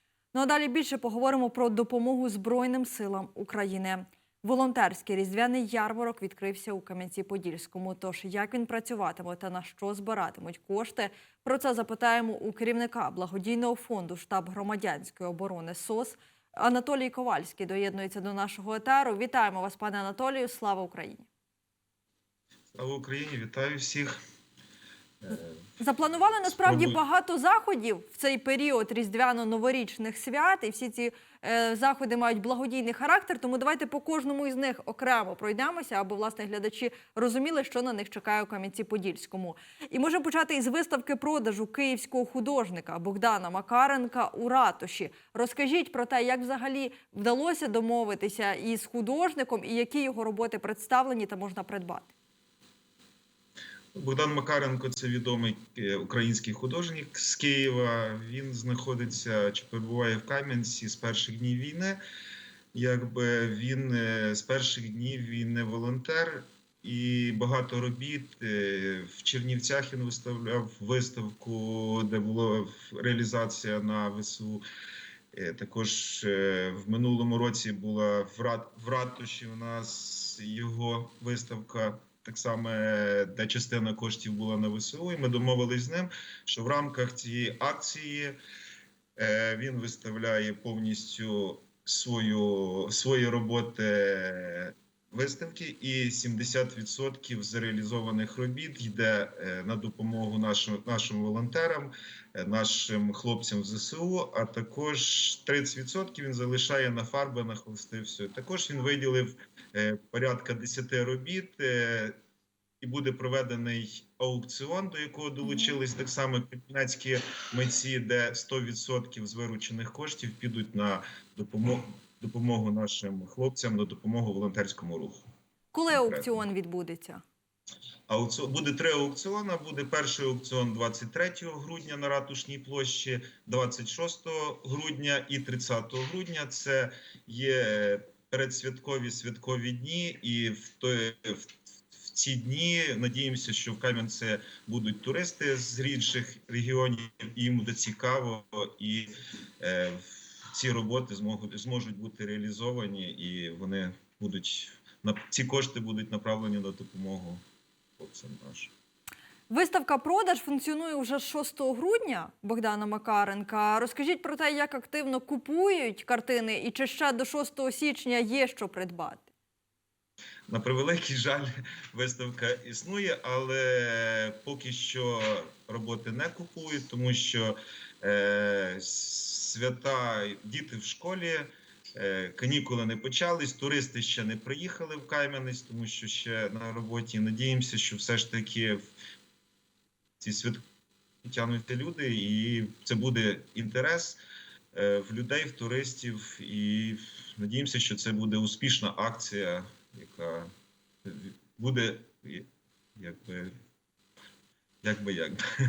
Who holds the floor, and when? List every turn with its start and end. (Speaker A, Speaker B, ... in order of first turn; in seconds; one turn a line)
Speaker A: 0.3-21.3
Speaker B: 22.7-24.2
Speaker B: 25.2-25.6
Speaker A: 25.8-52.1
Speaker B: 26.5-27.0
Speaker B: 53.9-62.0
Speaker B: 62.7-74.6
Speaker B: 75.3-88.4
Speaker B: 89.2-112.2
Speaker B: 112.8-125.2
Speaker A: 115.4-115.8
Speaker A: 125.7-127.2
Speaker B: 125.9-126.4
Speaker B: 128.1-157.4
Speaker B: 158.0-158.7
Speaker A: 159.5-169.3
Speaker B: 170.5-188.9
Speaker B: 190.2-190.6
Speaker B: 191.2-194.2
Speaker B: 194.7-200.5
Speaker B: 201.0-203.5
Speaker B: 204.8-205.4